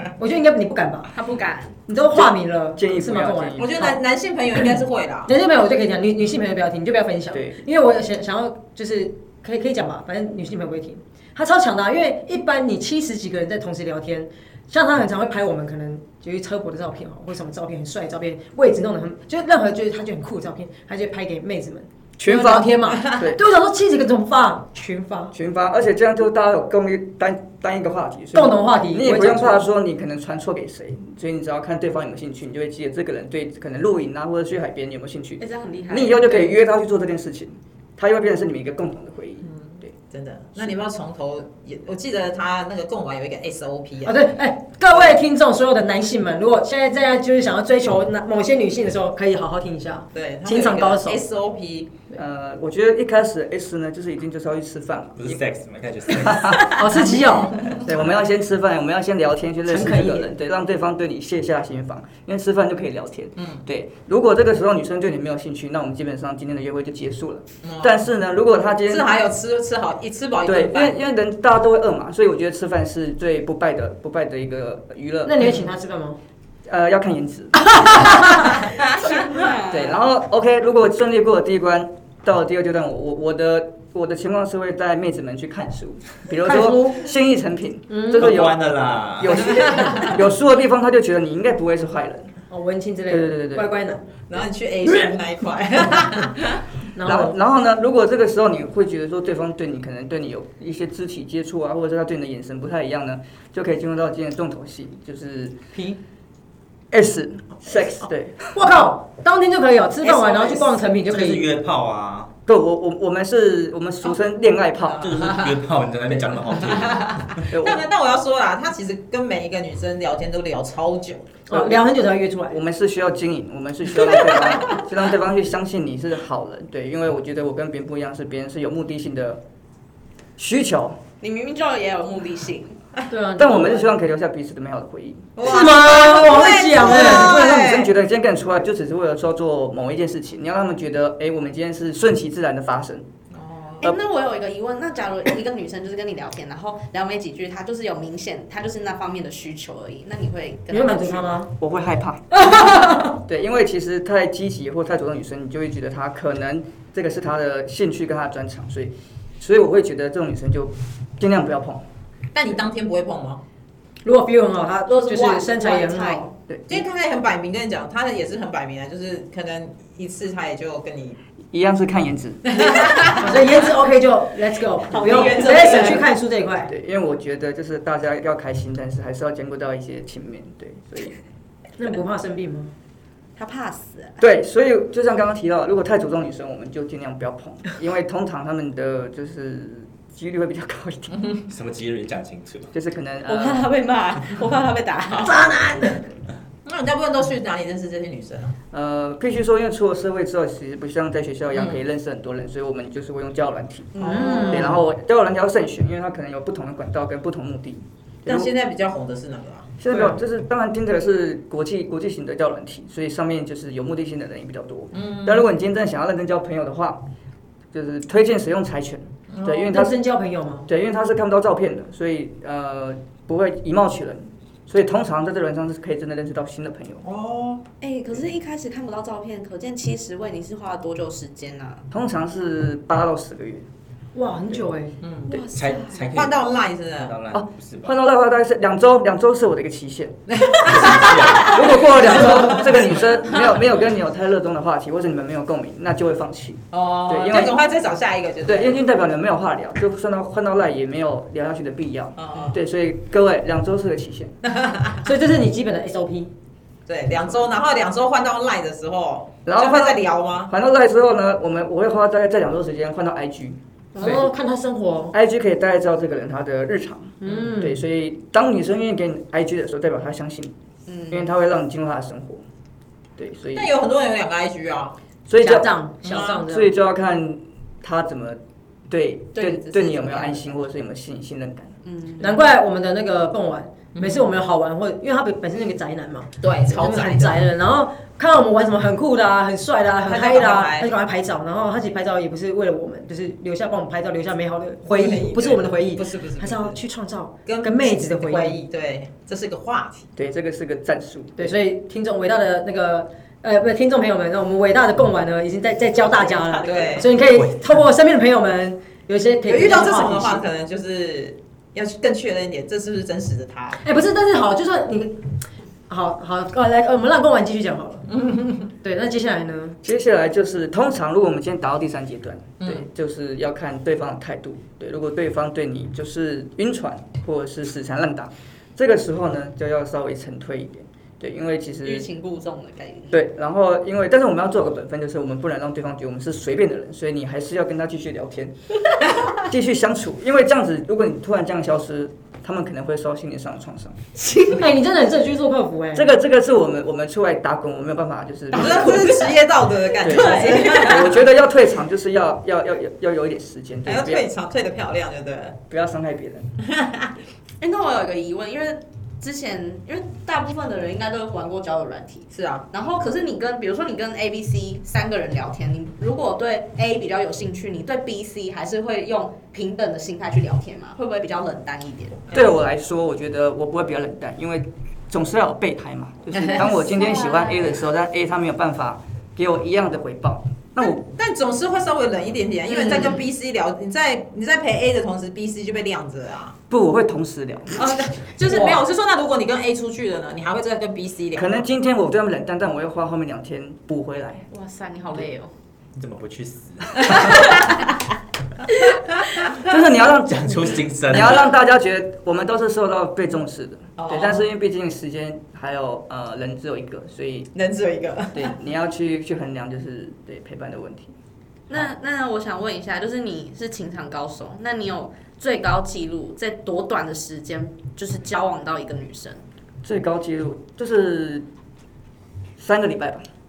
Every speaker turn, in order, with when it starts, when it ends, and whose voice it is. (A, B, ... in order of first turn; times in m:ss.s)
0:00.2-0:01.1 A
0:01.1-0:01.7 B
0:01.9-0:04.0 A
0:02.1-0:03.8 C
0:03.6-0:05.3 D
0:05.2-0:25.3 A
0:07.3-0:07.6 C
0:22.2-0:23.4 C
0:25.3-0:39.9 C
0:28.3-0:29.7 A
0:35.4-0:36.6 B
0:39.4-0:44.2 D
0:44.0-0:51.2 A
0:44.9-0:45.2 D
0:50.1-0:51.9 D
0:52.1-0:55.4 C
0:55.2-0:56.9 E
0:56.2-0:57.0 C
0:56.7-0:57.8 A
0:57.8-1:09.1 C
0:59.7-1:00.3 A
1:03.4-1:03.6 D
1:07.6-1:08.0 D
1:08.9-1:11.0 D
1:10.4-1:15.6 C
1:15.2-1:16.2 A
1:16.6-1:32.3 C
1:17.9-1:18.5 A
1:19.2-1:19.9 B
1:26.4-1:27.0 A
1:27.9-1:28.5 A
1:28.1-1:29.6 E
1:29.3-1:30.2 A
1:32.5-1:34.1 A
1:33.1-1:33.7 C
1:34.3-1:36.6 D
1:36.9-1:37.4 A
1:37.0-1:45.6 C
1:46.9-1:48.5 C
1:48.5-1:51.6 A
1:50.0-1:50.8 D
1:51.0-1:52.3 E
1:52.5-1:55.4 C
1:55.0-1:57.5 E
1:56.7-2:01.3 D
1:57.5-1:57.8 C
2:01.5-2:02.6 A
2:01.5-2:01.8 C
2:02.5-2:09.4 C
2:10.4-2:11.0 C
2:11.2-2:12.8 B
2:13.1-2:13.9 A
2:13.4-2:15.3 C
2:15.4-2:17.9 D
2:15.4-2:17.6 A
2:16.8-2:23.1 C
2:23.3-2:23.9 D
2:23.8-2:31.4 B
2:30.7-2:31.5 A
2:31.6-2:41.8 C
2:32.4-2:33.2 A
2:42.3-2:43.4 D
2:44.0-2:46.2 A
2:44.9-2:46.3 B
2:46.5-2:46.8 C
2:46.7-2:51.2 D
2:51.5-2:52.8 C
2:52.4-2:53.5 D
2:53.1-2:56.7 A
2:54.9-2:56.1 D
2:55.0-2:56.0 B
2:56.7-3:01.2 C
3:01.8-3:02.7 A
3:03.4-3:04.1 B
3:04.2-3:11.3 C
3:11.5-3:12.7 E
3:12.7-3:13.6 C
3:13.3-3:15.4 B
3:15.2-3:16.1 A
3:16.6-3:18.6 D
3:18.7-3:28.5 C
3:21.5-3:21.8 D
3:24.0-3:24.8 D
3:24.0-3:24.4 B
3:24.0-3:24.7 A
3:28.2-3:29.7 D
3:29.8-3:37.0 C
3:29.9-3:30.2 A
3:34.9-3:35.5 D
3:37.7-3:40.0 C
3:39.3-3:39.6 D
3:39.6-3:40.7 A
3:40.7-3:47.0 C
3:47.0-3:47.6 D
3:47.8-3:51.8 B
3:51.9-3:53.6 C
3:54.1-3:54.9 A
3:55.0-3:55.4 D
3:55.3-3:56.1 B
3:55.5-3:58.0 E
3:56.1-3:57.2 D
3:57.3-4:07.6 C
4:00.3-4:03.4 D
4:00.7-4:01.6 E
4:06.7-4:08.8 D
4:08.4-4:14.3 C
4:12.2-4:12.6 D
4:14.4-4:15.1 D
4:15.0-4:16.3 A
4:16.9-4:20.5 D
4:19.4-4:24.3 C
4:24.0-4:25.1 A
4:25.1-4:30.5 C
4:27.2-4:27.8 A
4:30.9-4:31.3 B
4:31.1-4:32.4 C
4:33.2-4:33.7 C
4:33.5-4:35.0 D
4:35.3-4:35.7 C
4:35.4-4:36.7 A
4:36.0-4:36.4 D
4:36.4-4:41.7 C
4:39.3-4:40.5 B
4:41.8-4:42.4 B
4:42.2-4:58.6 A
4:43.9-4:44.3 D
4:46.4-4:47.4 D
4:50.0-4:50.9 D
4:54.8-4:56.8 D
4:57.4-5:00.1 D
5:00.2-5:01.6 C
5:01.4-5:10.4 A
5:06.1-5:07.2 D
5:09.4-5:13.8 D
5:13.8-5:15.3 A
5:15.9-5:18.1 A
5:18.1-5:18.6 D
5:18.7-5:19.8 A
5:19.8-5:32.1 C
5:22.6-5:22.9 D
5:31.8-5:33.2 B
5:33.1-5:38.5 C
5:39.3-5:44.0 C
5:44.2-5:44.6 B
5:44.4-5:46.1 A
5:45.9-5:49.3 C
5:48.5-5:51.2 D
5:50.0-5:54.3 C
5:50.0-5:51.0 B
5:53.8-5:55.6 D
5:55.7-5:56.5 C
5:56.6-5:57.1 D
5:57.6-6:12.2 B
6:02.3-6:02.6 D
6:12.3-6:21.0 C
6:16.5-6:17.7 B
6:20.8-6:26.6 D
6:22.7-6:23.2 B
6:26.7-6:27.9 C
6:27.7-6:31.6 D
6:31.3-6:34.4 C
6:34.5-6:35.5 B
6:36.0-6:37.6 E
6:39.6-6:47.5 C
6:40.2-6:41.5 E
6:44.0-6:44.5 D
6:47.5-6:48.6 D
6:48.3-6:51.1 C
6:51.7-6:59.4 B
6:59.8-7:01.4 C
7:02.6-7:03.2 C